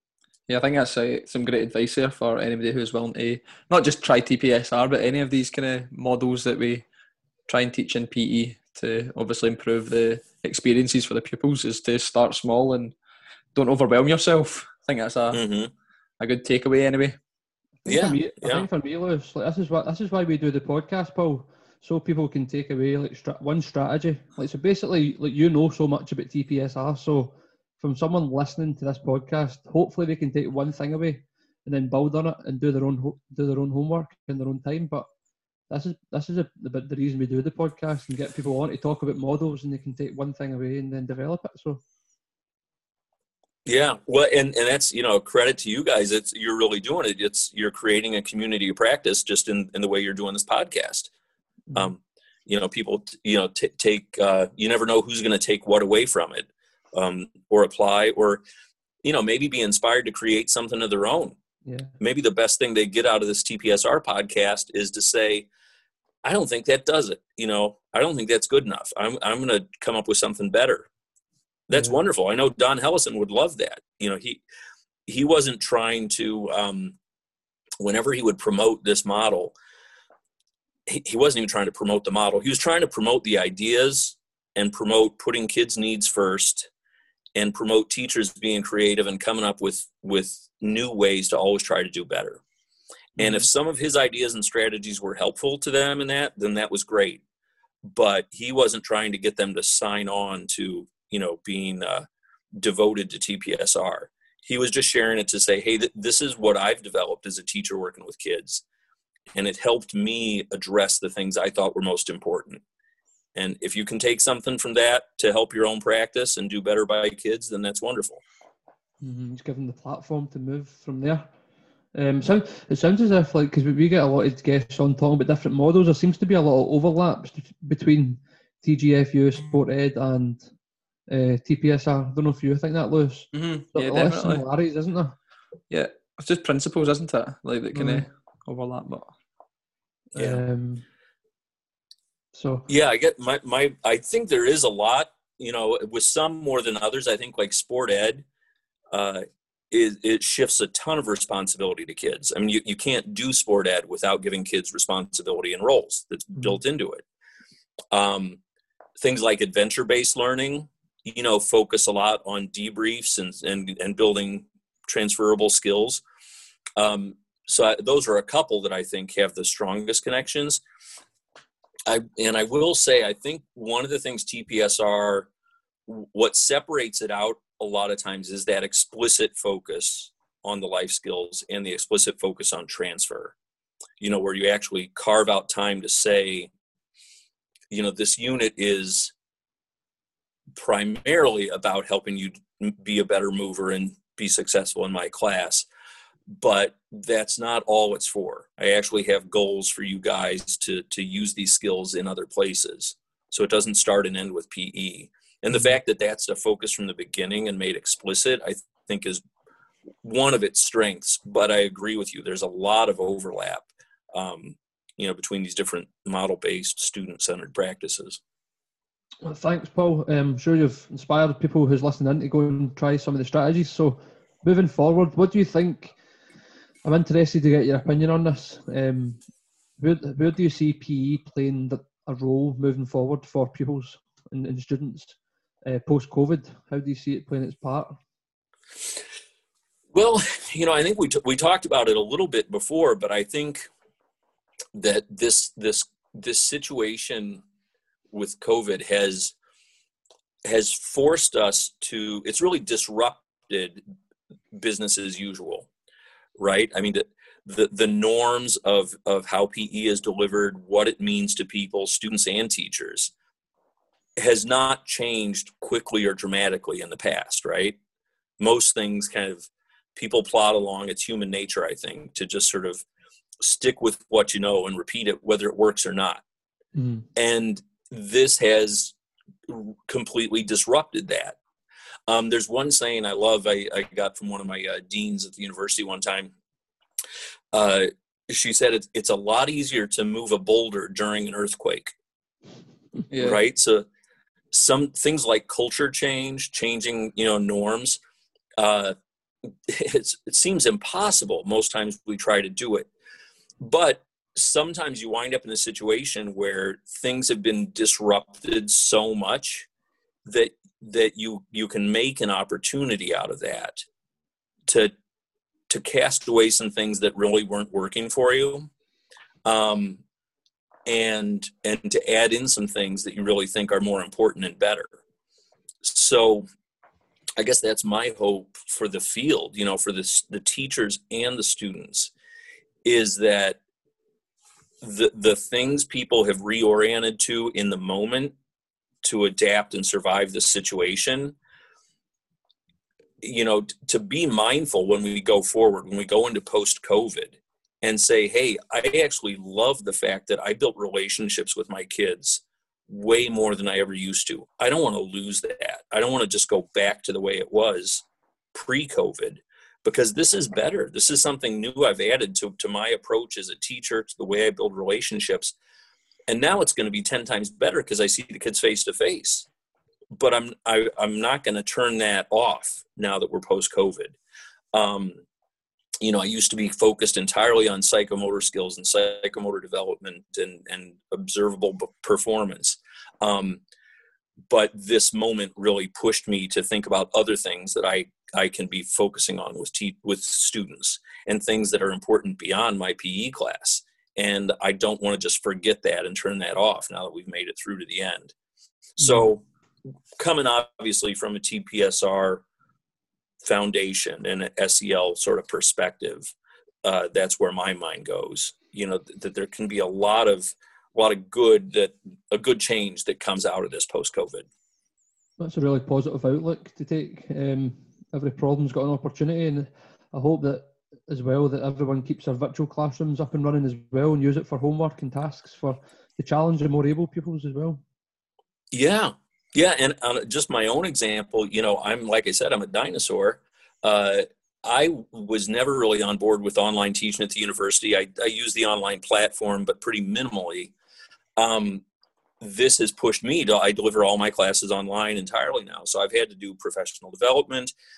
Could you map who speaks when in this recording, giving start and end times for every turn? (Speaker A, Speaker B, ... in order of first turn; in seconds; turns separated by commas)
Speaker A: 0.5-6.8, Speaker A: 7.5-12.9, Speaker A: 13.5-15.4, Speaker B: 15.3-15.7, Speaker A: 16.2-17.2, Speaker C: 17.8-35.1, Speaker B: 17.9-18.7, Speaker C: 35.7-41.8, Speaker B: 43.6-51.1, Speaker B: 51.7-58.4, Speaker B: 59.0-61.4, Speaker C: 61.6-61.9, Speaker B: 62.0-65.5, Speaker B: 66.2-70.9, Speaker B: 71.7-74.4, Speaker B: 75.0-77.0, Speaker B: 77.8-79.5, Speaker B: 80.9-86.7, Speaker B: 87.3-92.4, Speaker B: 93.2-97.2, Speaker B: 97.8-108.6, Speaker B: 109.3-112.6, Speaker B: 113.3-118.2, Speaker C: 119.0-121.3, Speaker C: 121.9-130.5, Speaker C: 131.1-135.2, Speaker A: 133.3-134.4, Speaker A: 135.7-139.1, Speaker C: 137.7-138.1, Speaker C: 140.2-140.8, Speaker C: 142.3-142.7, Speaker B: 142.7-148.2, Speaker B: 148.9-157.0, Speaker B: 157.9-158.4, Speaker B: 159.0-166.0, Speaker B: 166.8-170.6, Speaker B: 171.8-175.3, Speaker B: 175.9-183.3, Speaker B: 184.0-186.5, Speaker B: 187.7-189.1, Speaker B: 190.6-195.7, Speaker B: 196.3-209.2, Speaker B: 210.0-218.2, Speaker C: 219.2-225.9, Speaker C: 226.8-229.2, Speaker C: 229.8-238.0, Speaker B: 239.9-243.7, Speaker B: 244.7-247.4, Speaker B: 248.1-249.3, Speaker B: 250.4-253.8, Speaker B: 254.5-255.7, Speaker B: 256.4-263.1, Speaker B: 264.2-267.8, Speaker B: 268.4-272.8, Speaker B: 273.4-276.2, Speaker C: 276.7-277.1, Speaker B: 277.1-278.9, Speaker B: 279.5-281.4, Speaker B: 282.1-286.3, Speaker B: 287.5-291.9, Speaker B: 293.0-293.9, Speaker A: 293.1-293.4, Speaker B: 294.5-298.0, Speaker B: 298.6-298.9, Speaker B: 299.7-302.9, Speaker B: 303.6-309.7, Speaker B: 310.2-313.8, Speaker B: 314.7-314.9, Speaker B: 315.7-318.7, Speaker B: 319.4-320.0, Speaker B: 320.9-324.9, Speaker B: 325.8-326.5, Speaker B: 327.4-332.1, Speaker B: 332.8-333.6, Speaker B: 334.8-338.3, Speaker B: 339.0-341.3, Speaker B: 343.2-365.5, Speaker B: 366.3-369.5, Speaker B: 370.1-374.1, Speaker B: 374.7-375.2, Speaker B: 376.0-383.6, Speaker B: 384.5-398.3, Speaker B: 399.0-399.4, Speaker C: 399.0-399.2, Speaker B: 400.2-402.4, Speaker B: 403.4-406.3, Speaker B: 406.8-414.4, Speaker C: 415.4-427.8, Speaker B: 428.7-440.7, Speaker B: 441.4-441.8, Speaker B: 442.4-447.7